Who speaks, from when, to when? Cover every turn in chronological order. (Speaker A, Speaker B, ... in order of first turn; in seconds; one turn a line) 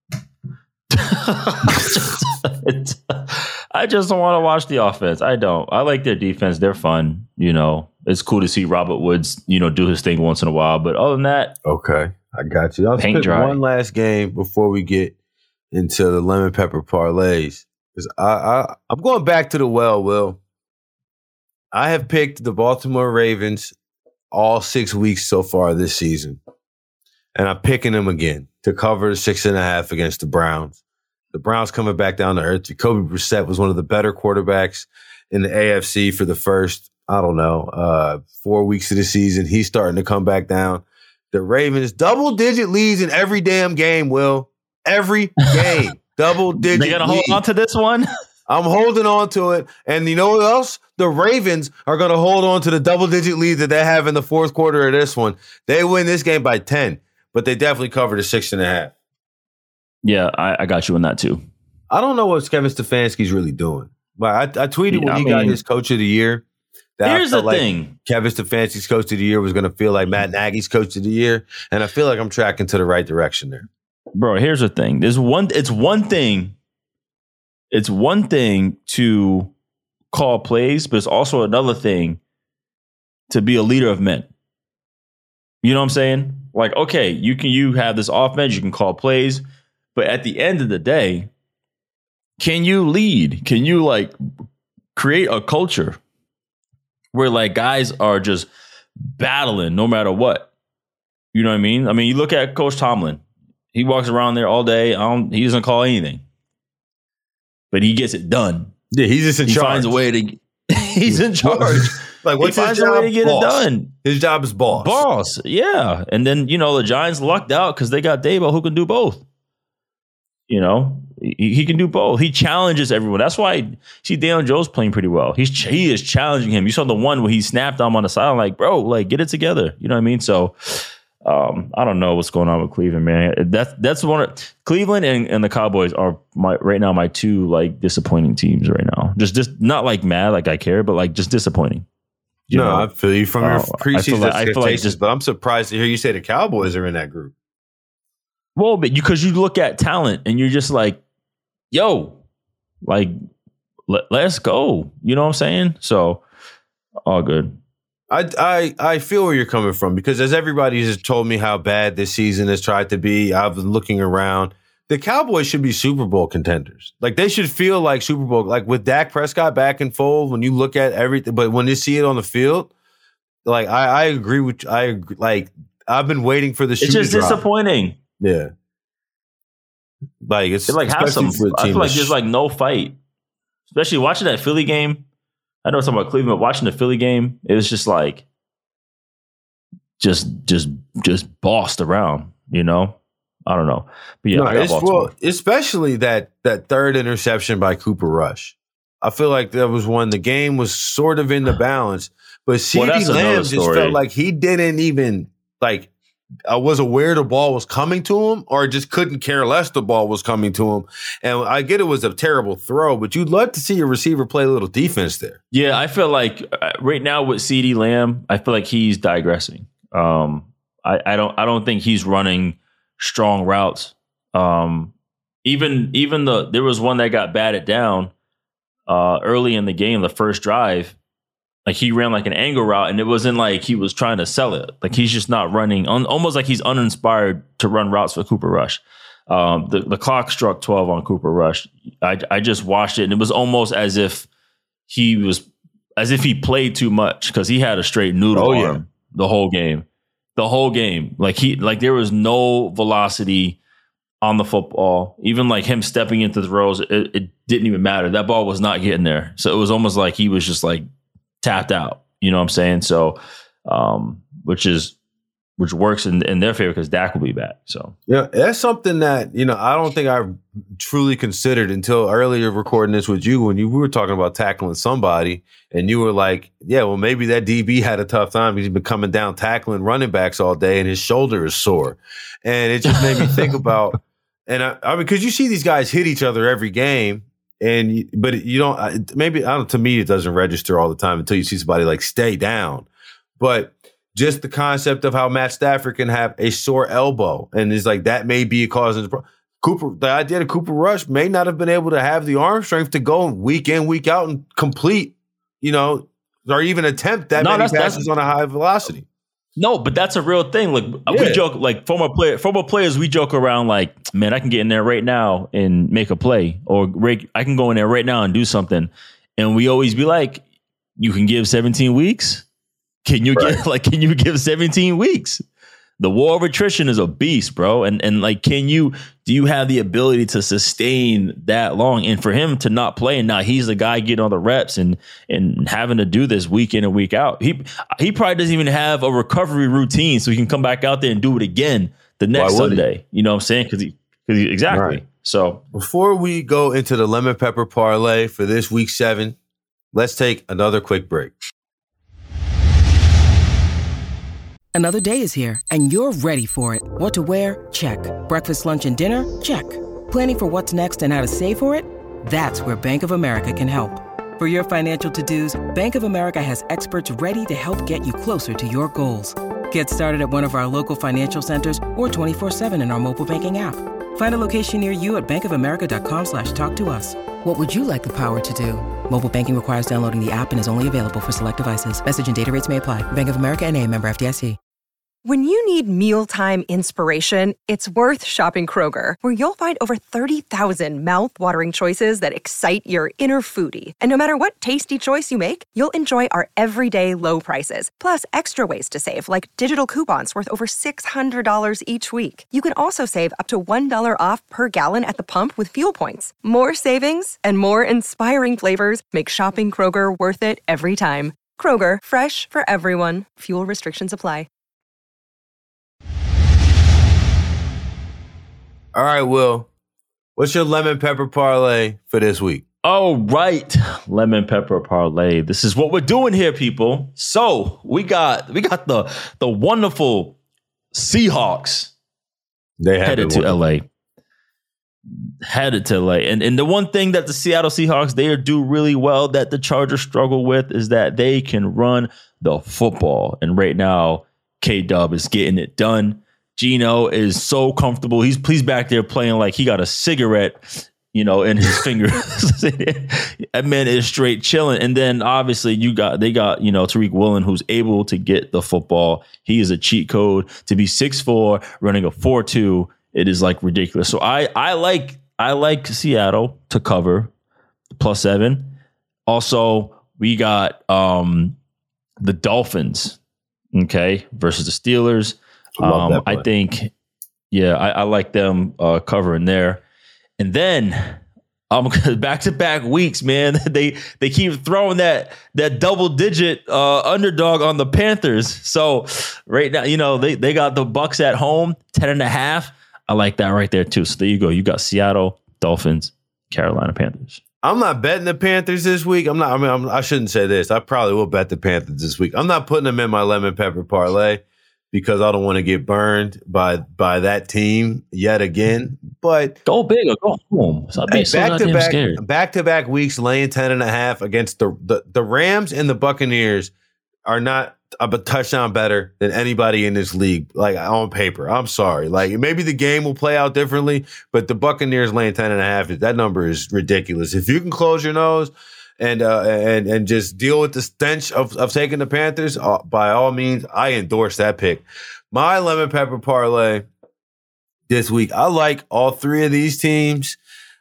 Speaker A: 0.9-11.6
Speaker B: 11.7-15.1
Speaker A: 13.0-13.6
Speaker B: 15.7-20.4
Speaker B: 21.7-23.7
Speaker B: 24.3-26.4
Speaker B: 27.4-30.8
Speaker B: 31.3-47.4
Speaker A: 46.6-48.0
Speaker B: 48.5-58.9
Speaker A: 60.0-61.4
Speaker B: 61.9-66.4
Speaker A: 64.9-65.6
Speaker B: 67.0-73.7
Speaker A: 67.0-67.9
Speaker A: 74.1-76.5
Speaker A: 77.7-79.5
Speaker A: 80.1-82.2
Speaker A: 83.3-84.3
Speaker A: 85.6-89.4
Speaker A: 89.9-91.3
Speaker A: 92.4-94.1
Speaker A: 94.9-96.0
Speaker A: 97.1-98.5
Speaker A: 99.1-100.5
Speaker A: 101.3-103.2
Speaker A: 103.7-106.2
Speaker A: 107.7-108.7
Speaker B: 108.9-110.0
Speaker A: 109.5-113.9
Speaker B: 111.1-115.0
Speaker A: 114.7-119.2
Speaker A: 120.5-141.8
Speaker A: 142.5-142.9
Speaker B: 142.5-147.3
Speaker A: 143.4-145.0
Speaker A: 148.6-151.0
Speaker A: 151.7-152.2
Speaker A: 152.8-153.1
Speaker A: 153.9-156.2
Speaker A: 157.1-157.6
Speaker B: 158.1-172.7
Speaker B: 173.4-177.4
Speaker A: 176.8-178.0
Speaker B: 178.2-178.5
Speaker B: 180.2-182.1
Speaker A: 180.7-183.0
Speaker A: 183.7-185.1
Speaker A: 185.6-188.2
Speaker A: 190.0-195.1
Speaker B: 194.3-205.9
Speaker A: 202.7-204.0
Speaker B: 206.5-215.4
Speaker A: 215.5-228.1
Speaker A: 228.9-231.0
Speaker A: 231.7-244.3
Speaker A: 244.9-245.5
Speaker A: 246.0-253.6
Speaker B: 248.3-248.8
Speaker A: 254.2-260.9
Speaker A: 261.4-264.9
Speaker A: 265.6-267.9
Speaker B: 268.1-292.9
Speaker B: 293.4-309.1
Speaker A: 307.4-308.1
Speaker A: 309.6-320.4
Speaker B: 311.1-311.4
Speaker A: 321.0-322.4
Speaker A: 323.0-325.4
Speaker B: 323.3-323.6
Speaker A: 326.0-345.6
Speaker B: 342.3-342.8
Speaker B: 344.7-345.0
Speaker B: 345.7-349.4
Speaker B: 349.9-351.3
Speaker C: 354.7-384.6
Speaker D: 385.2-414.5
Speaker B: 418.9-419.7
Speaker B: 420.4-422.6
Speaker A: 422.8-430.4
Speaker A: 430.9-431.9
Speaker B: 432.8-433.6
Speaker A: 433.0-433.9
Speaker A: 435.4-467.3
Speaker A: 467.9-468.8
Speaker A: 469.3-471.6
Speaker A: 472.2-473.2
Speaker A: 473.7-476.9
Speaker B: 475.8-476.4
Speaker A: 477.5-479.8
Speaker A: 480.4-497.4
Speaker B: 497.6-509.6
Speaker A: 509.6-512.2
Speaker B: 511.1-516.7
Speaker B: 517.2-536.9
Speaker B: 537.9-540.4